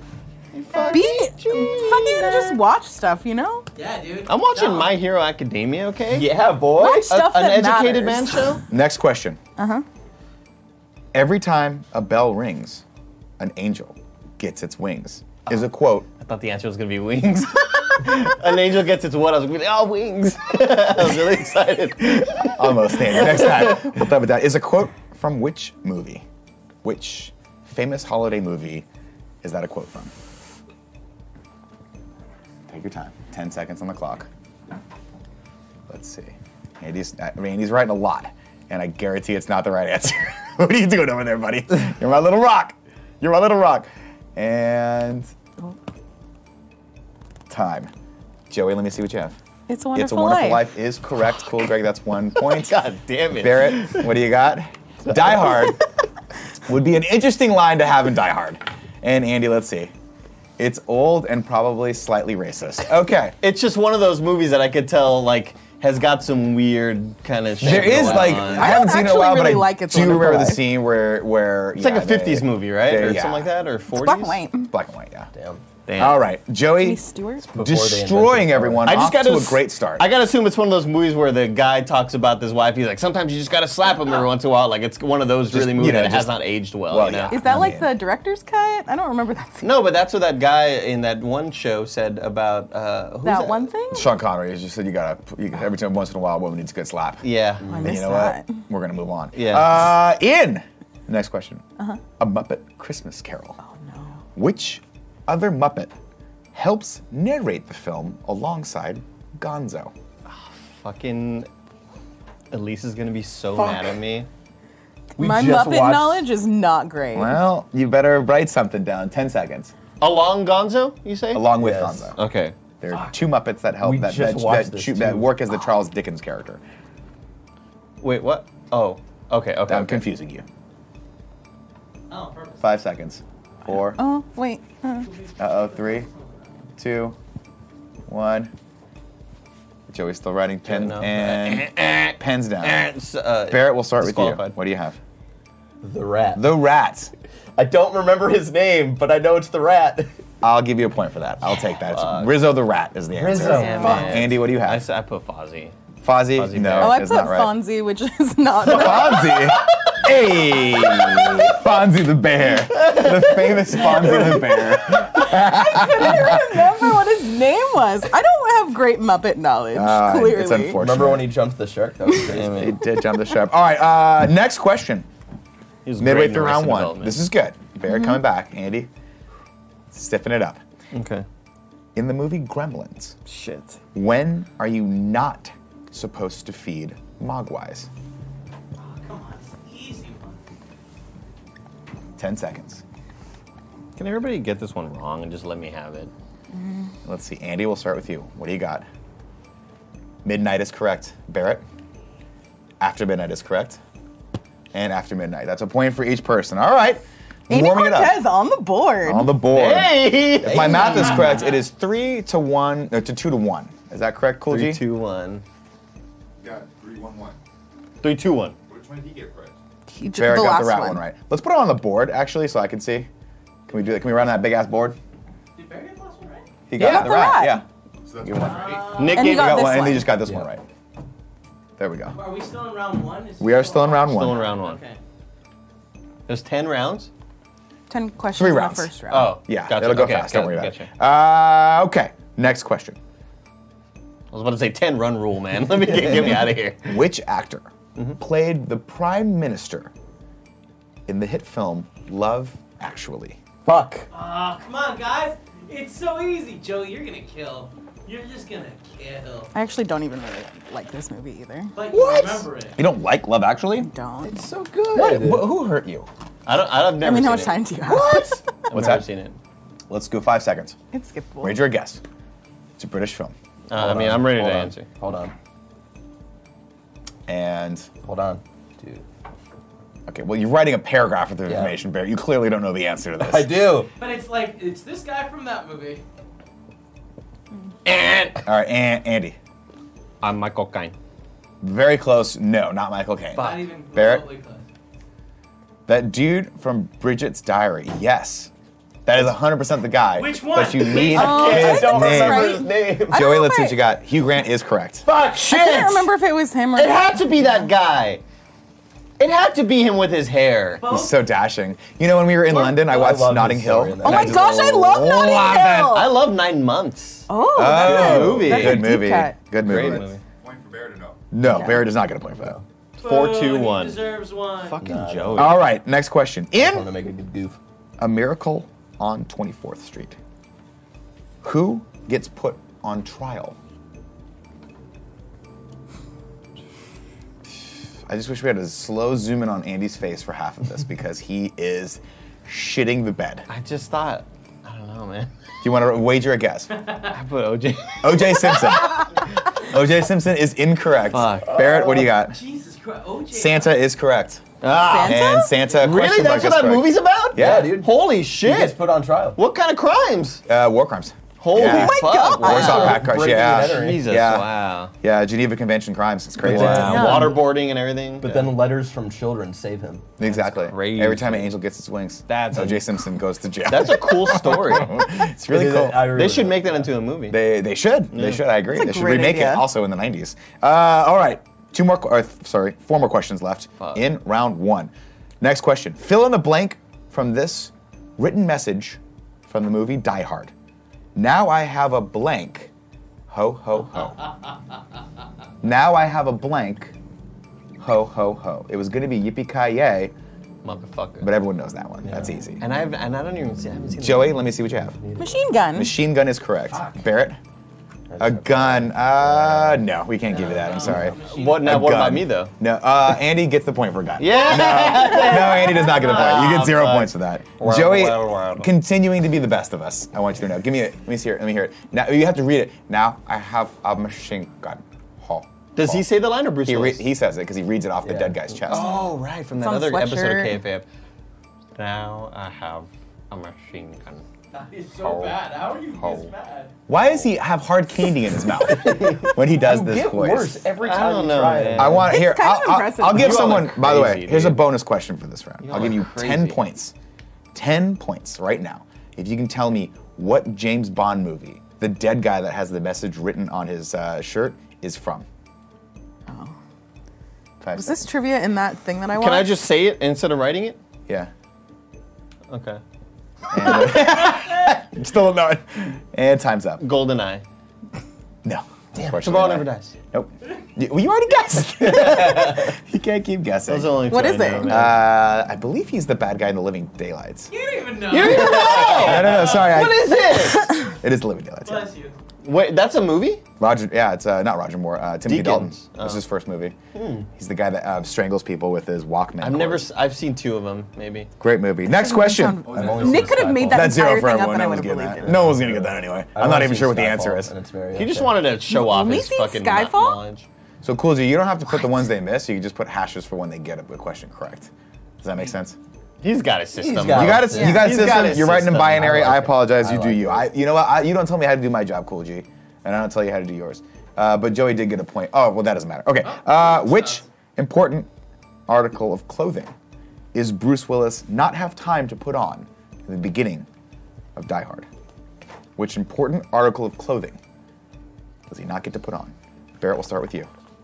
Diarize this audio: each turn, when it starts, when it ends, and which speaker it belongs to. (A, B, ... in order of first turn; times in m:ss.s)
0:00.5-0:02.6 A
0:00.9-0:03.6 B
0:03.8-0:04.9 C
0:04.3-0:06.3 A
0:06.1-0:07.1 D
0:06.7-0:08.4 B
0:07.0-0:08.6 A
0:08.7-0:09.4 E
0:09.6-0:09.8 B
0:11.1-0:12.8 E
0:13.4-0:16.1 E
0:16.2-0:23.9 A
0:22.4-0:26.2 E
0:26.8-0:28.8 E
0:29.4-0:30.1 E
0:32.7-0:34.3 E
0:35.9-0:45.3 E
0:47.5-0:47.9 E
0:48.5-0:49.4 E
0:49.7-0:50.6 B
0:49.9-0:52.8 E
0:52.4-0:54.0 A
0:53.3-0:55.8 E
0:56.6-0:59.9 E
1:00.6-1:03.4 E
1:03.4-1:09.0 A
1:07.6-1:13.5 E
1:07.9-1:08.2 D
1:08.3-1:10.6 B
1:11.8-1:14.4 A
1:13.9-1:14.7 B
1:14.7-1:15.3 E
1:15.3-1:15.6 D
1:15.9-1:16.2 A
1:16.0-1:17.0 E
1:16.8-1:17.5 B
1:17.5-1:19.1 D
1:17.5-1:20.1 E
1:18.8-1:27.4 A
1:25.5-1:28.0 E
1:27.3-1:29.7 B
1:29.6-1:33.7 A
1:33.2-1:34.1 B
1:33.9-1:41.6 E
1:37.2-1:37.7 A
1:37.6-1:37.9 D
1:37.7-1:38.6 B
1:39.3-1:39.8 A
1:42.2-1:43.6 E
1:43.6-1:44.2 B
1:44.4-1:45.9 E
1:46.5-1:49.9 E
1:50.2-1:51.5 A
1:52.5-1:54.3 A
1:55.2-1:57.3 B
1:55.2-1:56.3 D
1:57.1-1:59.7 E
2:00.0-2:01.5 A
2:01.3-2:02.1 E
2:01.6-2:02.1 D
2:02.1-2:02.5 A
2:02.8-2:06.6 E
2:03.8-2:05.4 D
2:08.0-2:10.0 A
2:09.7-2:10.4 E
2:12.1-2:12.8 C
2:12.6-2:14.0 E
2:13.8-2:15.1 B
2:15.0-2:16.7 C
2:15.4-2:16.1 E
2:16.8-2:17.2 E
2:18.1-2:18.5 E
2:19.9-2:22.8 E
2:20.6-2:24.6 A
2:23.5-2:25.0 E
2:25.8-2:26.5 D
2:26.3-2:27.1 E
2:27.6-2:30.1 D
2:30.4-2:34.8 E
2:31.8-2:32.3 A
2:33.2-2:34.1 D
2:33.4-2:35.7 A
2:33.5-2:34.2 B
2:36.0-2:37.6 E
2:36.3-2:37.0 A
2:36.8-2:39.6 B
2:38.6-2:46.6 E
2:40.8-2:41.6 B
2:43.9-2:50.8 B
2:49.7-2:51.3 E
2:50.7-2:52.6 D
2:52.3-2:52.8 A
2:52.5-2:55.1 E
2:55.8-2:57.2 A
2:56.0-2:58.9 E
2:57.9-2:58.2 B
2:59.9-3:00.6 E
3:00.9-3:01.2 A
3:01.9-3:03.2 E
3:03.2-3:03.8 A
3:03.9-3:07.9 E
3:08.8-3:10.4 C
3:12.2-3:12.8 E
3:14.0-3:16.1 A
3:17.0-3:18.8 E
3:20.2-3:21.6 E
3:22.8-3:23.8 E
3:24.7-3:28.2 E
3:27.5-3:29.3 B
3:29.0-3:34.8 E
3:29.5-3:31.4 A
3:30.4-3:31.1 D
3:31.2-3:31.5 C
3:34.5-3:35.4 A
3:36.4-3:37.4 F
3:38.0-3:38.5 A
3:38.7-3:39.6 F
3:39.9-3:41.0 B
3:40.1-3:43.1 E
3:43.6-3:45.0 E
3:45.6-3:46.4 C
3:46.7-3:47.6 E
3:46.8-3:47.0 A
3:46.8-3:47.6 B
3:48.0-3:49.1 F
3:48.2-3:50.6 E
3:48.4-3:49.3 C
3:48.9-3:49.7 A
3:49.1-3:50.2 B
3:50.2-3:50.4 D
3:51.8-3:52.2 E
3:52.1-3:55.0 C
3:53.4-3:54.4 E
3:54.1-3:54.8 A
3:56.3-3:57.1 A
3:57.9-3:59.4 B
3:58.3-3:58.9 E
3:59.1-4:00.9 A
3:59.4-4:03.0 E
4:04.3-4:07.0 A
4:05.9-4:09.9 E
4:11.1-4:13.4 E
4:13.6-4:14.1 D
4:14.1-4:19.5 C
4:19.5-4:21.8 B
4:21.7-4:22.8 C
4:21.9-4:23.9 E
4:23.8-4:24.3 B
4:24.2-4:25.5 D
4:24.9-4:26.1 E
4:26.4-4:29.4 A
4:27.0-4:28.4 B
4:28.7-4:29.0 E
4:29.9-4:30.8 E
4:30.9-4:31.6 B
4:31.4-4:32.0 E
4:32.8-4:33.3 E
4:33.7-4:34.9 A
4:33.7-4:35.3 D
4:37.3-4:37.9 E
4:38.0-4:39.0 D
4:40.1-4:43.8 E
4:41.5-4:41.8 D
4:43.2-4:43.9 D
4:44.0-4:46.0 C
4:47.8-4:48.4 A
4:48.4-4:49.4 E
4:50.2-4:50.9 A
4:51.6-4:54.2 E
4:53.3-4:53.6 A
4:53.4-4:54.6 C
4:55.9-4:58.5 E
4:59.0-5:05.0 E
5:00.1-5:01.4 C
5:00.8-5:03.2 D
5:01.1-5:03.8 B
5:01.2-5:02.8 A
5:05.0-5:06.1 A
5:05.4-5:07.1 B
5:06.7-5:08.2 A
5:09.2-5:10.8 A
5:10.8-5:11.2 C
5:10.9-5:15.9 E
5:12.5-5:14.5 D
5:14.0-5:16.2 B
5:14.2-5:14.6 A
5:15.2-5:19.0 A
5:17.3-5:19.4 B
5:17.5-5:20.1 E
5:19.6-5:20.2 A
5:19.6-5:21.2 F
5:21.3-5:22.6 E
5:22.3-5:22.6 D
5:23.0-5:24.1 A
5:23.0-5:24.8 C
5:24.6-5:25.6 A
5:24.8-5:25.5 D
5:25.3-5:26.9 E
5:26.5-5:27.6 D
5:28.0-5:30.2 E
5:31.4-5:33.6 E
5:38.1-5:43.5 E
5:43.5-5:45.3 A
5:45.6-5:46.7 E
5:47.0-5:48.6 A
5:48.0-5:52.4 E
5:51.1-5:51.6 A
5:51.5-5:52.1 D
5:52.3-5:53.7 C
5:53.3-5:54.4 E
5:54.6-5:58.8 A
5:54.7-5:55.6 B
5:55.0-5:57.8 E
5:57.4-5:59.4 D
5:59.3-6:00.4 A
6:00.4-6:04.5 E
6:01.4-6:04.9 A
6:01.5-6:02.8 B
6:02.4-6:04.1 D
6:05.0-6:07.2 E
6:06.4-6:07.5 D
6:06.4-6:08.6 A
6:06.8-6:07.4 B
6:08.2-6:10.1 D
6:10.2-6:16.2 E
6:10.2-6:11.5 A
6:12.3-6:12.9 A
6:13.6-6:15.0 A
6:15.4-6:16.9 D
6:16.1-6:17.4 A
6:17.3-6:30.5 E
6:18.1-6:18.4 A
6:18.7-6:19.7 B
6:23.8-6:24.1 A
6:31.1-6:32.7 E
6:33.3-6:34.2 E
6:35.6-6:36.9 E
6:37.8-6:40.1 E
6:40.6-6:41.3 A
6:41.2-6:42.6 E
6:42.1-6:44.4 A
6:44.0-6:45.0 E
6:45.0-6:45.4 D
6:45.2-6:46.0 B
6:45.7-6:47.4 E
6:48.1-6:49.9 D
6:48.2-7:06.1 E
6:50.2-6:51.7 C
6:51.1-6:52.5 A
6:54.2-6:58.7 A
7:05.8-7:07.1 A
7:06.6-7:09.1 E
7:08.5-7:10.8 A
7:09.6-7:10.6 B
7:11.8-7:14.2 A
7:14.5-7:16.7 C
7:15.0-7:15.4 A
7:15.9-7:16.3 A
7:16.9-7:20.7 E
7:18.7-7:22.1 D
7:20.8-7:22.2 A
7:21.7-7:26.9 E
7:22.0-7:23.3 B
7:23.0-7:24.7 A
7:25.6-7:26.6 A
7:27.5-7:35.2 E
7:36.3-7:36.5 B
7:37.6-7:38.0 E
7:37.8-7:39.6 B
7:39.1-7:40.8 A
7:42.5-7:42.8 A
7:43.5-7:46.8 E
7:46.8-7:47.4 A
7:48.4-7:57.5 E
7:48.9-7:49.9 A
7:53.7-7:54.9 A
7:54.1-7:54.8 B
7:57.5-7:59.7 C
7:58.1-8:00.7 A
7:58.4-8:01.9 E
8:01.6-8:02.1 C
8:02.4-8:03.4 A
8:03.6-8:06.8 E
8:05.2-8:06.2 A
8:06.9-8:07.3 A
8:07.3-8:09.9 E
8:09.4-8:11.3 A
8:11.4-8:12.7 E
8:11.8-8:15.4 B
8:12.6-8:13.6 F
8:12.7-8:14.1 D
8:13.6-8:17.5 E
8:15.1-8:18.5 D
8:17.9-8:20.4 A
8:18.6-8:20.2 B
8:20.8-8:24.7 E
8:25.2-8:25.8 E
8:26.2-8:29.3 A
8:26.8-8:30.5 D
8:27.1-8:38.1 E
8:36.2-8:37.2 C
8:38.7-8:39.7 E
8:40.3-8:43.7 E
8:44.4-8:44.9 E
8:45.8-8:47.4 E
8:48.5-8:50.5 E